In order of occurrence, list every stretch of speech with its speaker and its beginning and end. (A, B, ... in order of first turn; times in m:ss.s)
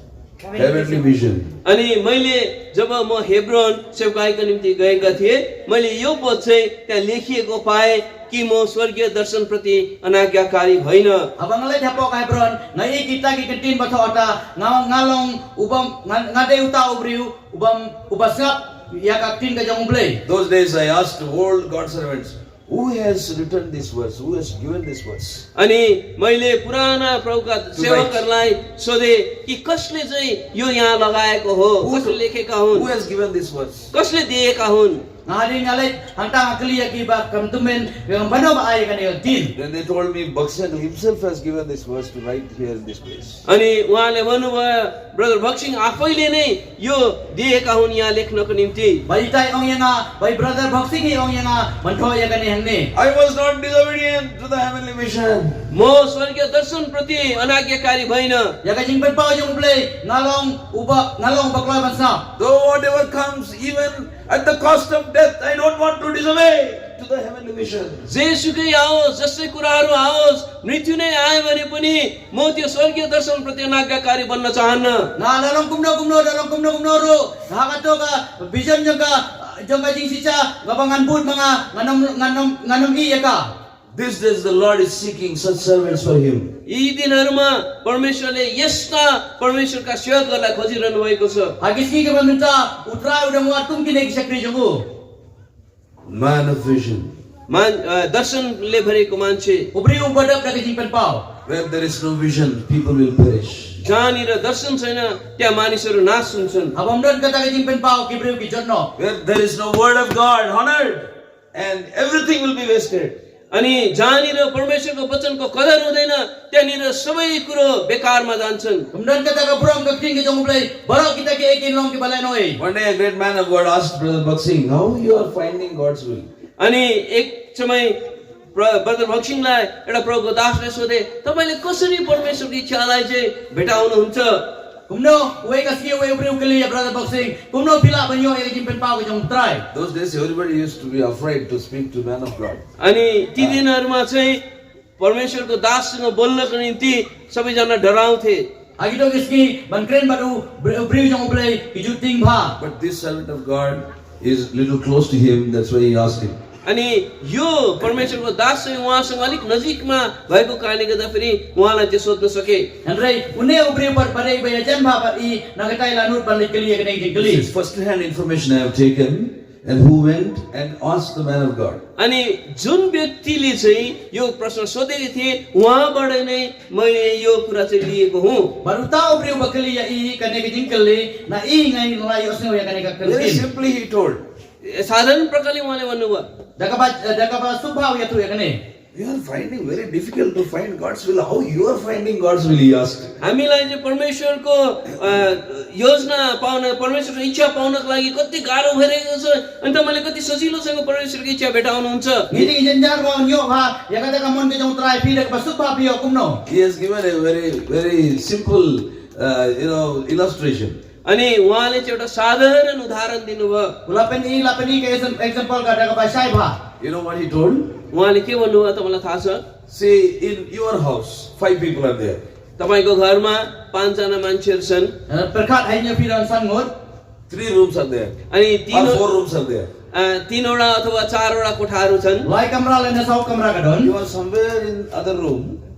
0:00.5-0:01.6 A
0:01.6-0:11.3 B
0:11.4-0:20.2 C
0:20.2-0:25.4 A
0:25.6-0:32.9 B
0:27.7-0:28.2 A
0:31.8-0:32.2 A
0:32.7-0:33.9 A
0:33.9-0:35.0 B
0:35.2-0:39.5 C
0:39.5-0:43.4 A
0:43.4-0:49.0 B
0:49.1-0:52.9 C
0:52.9-0:55.6 A
0:55.7-0:58.5 B
0:58.6-1:02.2 C
1:02.4-1:08.1 A
1:08.0-1:15.1 B
1:15.2-1:23.5 C
1:23.9-1:26.5 A
1:26.6-1:31.6 B
1:31.6-1:34.8 C
1:36.1-1:37.1 A
1:37.5-1:39.7 B
1:39.7-1:41.2 C
1:41.4-1:43.8 A
1:43.8-1:46.7 B
1:46.7-1:48.9 C
1:49.0-1:53.2 A
1:53.5-1:58.9 B
1:58.9-2:02.6 C
2:02.6-2:06.3 A
2:06.6-2:08.0 B
2:08.5-2:14.4 B
2:14.9-2:19.6 C
2:19.7-2:22.6 A
2:22.8-2:24.4 B
2:23.4-2:23.6 A
2:25.0-2:28.5 B
2:28.8-2:32.5 C
2:32.6-2:36.4 A
2:36.6-2:42.7 B
2:42.8-2:47.4 C
2:47.2-2:51.8 A
2:52.0-2:58.6 B
2:58.6-3:03.4 C
3:03.0-3:04.2 A
3:04.6-3:06.3 B
3:06.6-3:08.6 C
3:08.9-3:13.2 A
3:13.2-3:22.5 B
3:22.3-3:26.4 C
3:26.4-3:30.8 A
3:31.0-3:33.7 B
3:33.8-3:36.6 C
3:36.8-3:37.7 A
3:37.9-3:39.4 B
3:39.7-3:42.2 A
3:42.6-3:44.9 B
3:45.1-3:46.7 C
3:47.3-3:48.1 A
3:48.3-3:49.0 B
3:48.7-3:49.7 A
3:49.9-3:52.3 B
3:52.2-3:53.9 C
3:53.8-3:55.6 A